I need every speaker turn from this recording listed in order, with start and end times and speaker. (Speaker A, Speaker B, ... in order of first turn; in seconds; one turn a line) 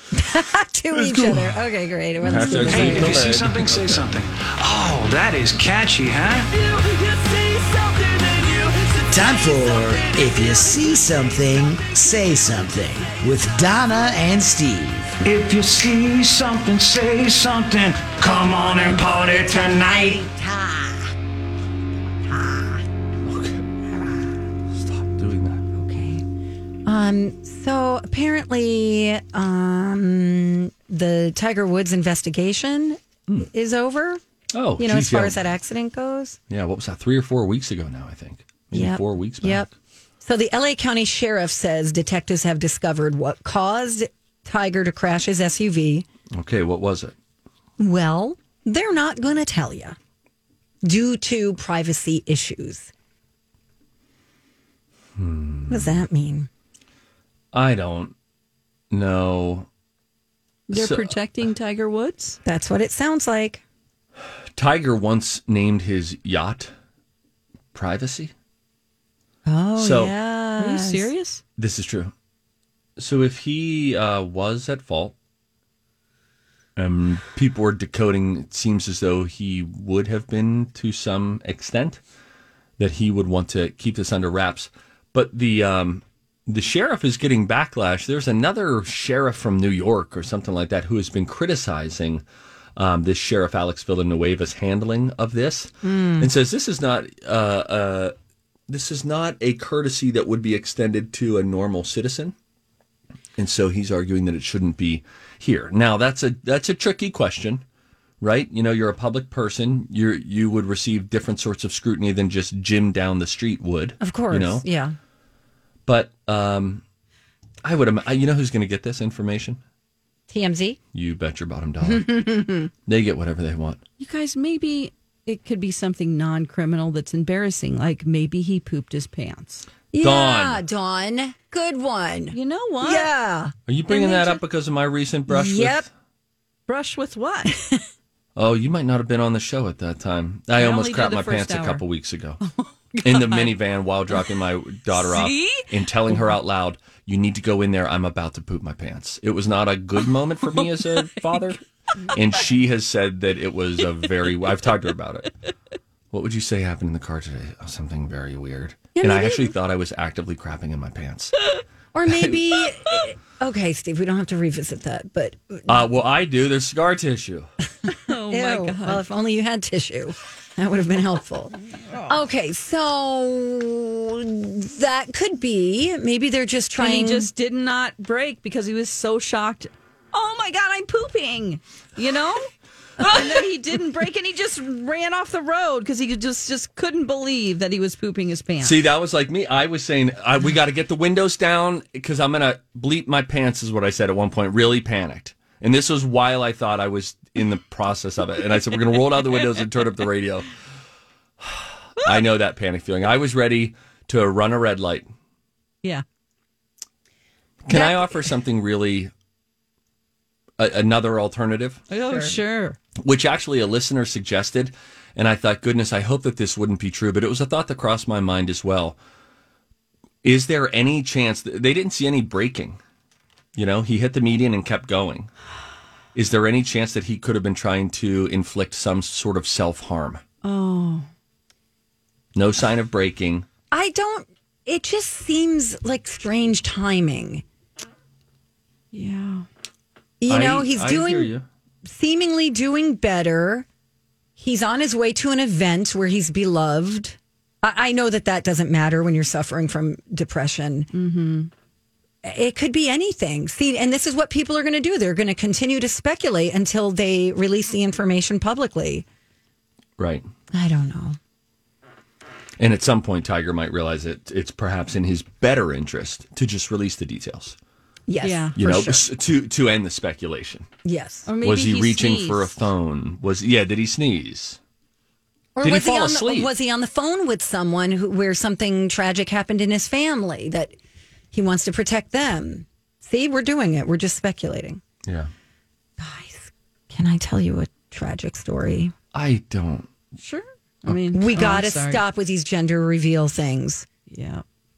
Speaker A: 0.1-3.3
Speaker B: 0.9-1.5
Speaker B: 2.2-4.1
Speaker C: 2.3-2.9
Speaker D: 2.6-6.5
Speaker C: 6.3-9.5
Speaker D: 8.5-10.1
Speaker E: 9.1-15.1
Speaker C: 10.1-10.9
Speaker D: 15.2-20.3
Speaker A: 19.1-21.1
Speaker A: 22.3-22.8
Speaker B: 23.2-23.6
Speaker B: 24.7-25.6
Speaker A: 25.7-26.2
Speaker A: 26.9-34.2
Speaker B: 34.5-35.4
Speaker A: 34.8-36.4
Speaker B: 36.5-39.7
Speaker A: 38.7-39.7
Speaker A: 40.2-46.0
Speaker B: 46.3-47.1
Speaker A: 47.8-50.0
Speaker A: 50.8-52.9
Speaker B: 55.2-56.0
Speaker A: 55.7-56.5
Speaker B: 57.5-58.1
Speaker B: 58.9-59.7
Speaker C: 60.7-62.4
Speaker B: 60.7-61.2
Speaker A: 62.4-63.6
Speaker B: 64.5-66.7
Speaker B: 67.7-68.3
Speaker A: 69.5-71.1
Speaker B: 69.8-70.1
Speaker C: 70.6-71.4
Speaker B: 71.6-72.1
Speaker B: 73.0-75.1
Speaker B: 76.8-82.0
Speaker B: 82.8-92.2
Speaker B: 92.8-98.1
Speaker A: 95.8-96.3
Speaker B: 98.7-102.3
Speaker B: 103.4-107.6
Speaker B: 108.2-114.6
Speaker A: 114.0-114.9
Speaker B: 115.8-116.8
Speaker B: 117.6-119.6
Speaker A: 120.3-120.8
Speaker B: 120.9-122.2
Speaker A: 121.8-122.7
Speaker B: 122.8-123.8
Speaker C: 124.0-129.7
Speaker A: 129.9-133.5
Speaker B: 130.0-130.6
Speaker C: 132.3-133.1
Speaker B: 133.7-135.9
Speaker C: 133.9-134.3
Speaker A: 135.3-135.9
Speaker C: 136.7-137.5
Speaker A: 137.5-137.8
Speaker B: 138.3-142.4
Speaker C: 140.6-141.8
Speaker C: 142.4-143.5
Speaker B: 143.0-151.6
Speaker C: 144.9-146.3
Speaker B: 152.1-155.3
Speaker B: 156.1-161.4
Speaker A: 158.9-159.5
Speaker A: 161.9-165.8
Speaker B: 162.1-162.7
Speaker B: 165.7-167.5
Speaker C: 167.9-169.0
Speaker A: 168.3-171.5
Speaker A: 172.1-177.3
Speaker C: 176.8-188.8
Speaker B: 188.6-200.5
Speaker B: 201.4-205.1
Speaker B: 207.6-209.1
Speaker A: 207.7-208.2
Speaker B: 210.6-211.8
Speaker C: 211.9-212.8
Speaker A: 212.1-212.4
Speaker B: 213.0-218.9
Speaker B: 220.2-222.8
Speaker B: 223.6-225.3
Speaker B: 226.1-230.2
Speaker C: 230.4-231.1
Speaker B: 232.3-233.4
Speaker A: 233.7-237.4
Speaker C: 238.9-239.4
Speaker A: 240.2-241.3
Speaker B: 240.3-241.4
Speaker A: 241.8-243.7
Speaker A: 244.4-250.9
Speaker C: 250.9-251.5
Speaker A: 252.2-259.0
Speaker B: 260.0-260.2
Speaker A: 260.5-261.2
Speaker B: 262.6-267.6
Speaker A: 268.1-269.0
Speaker C: 268.2-268.6
Speaker B: 268.6-270.7
Speaker A: 270.8-271.3
Speaker C: 271.2-272.5
Speaker B: 271.4-274.6
Speaker A: 275.6-280.7
Speaker B: 275.6-276.5
Speaker A: 281.3-284.8
Speaker B: 285.1-285.3
Speaker A: 286.0-288.9
Speaker B: 289.1-289.9
Speaker C: 290.2-292.0
Speaker A: 291.1-293.9
Speaker C: 294.1-294.4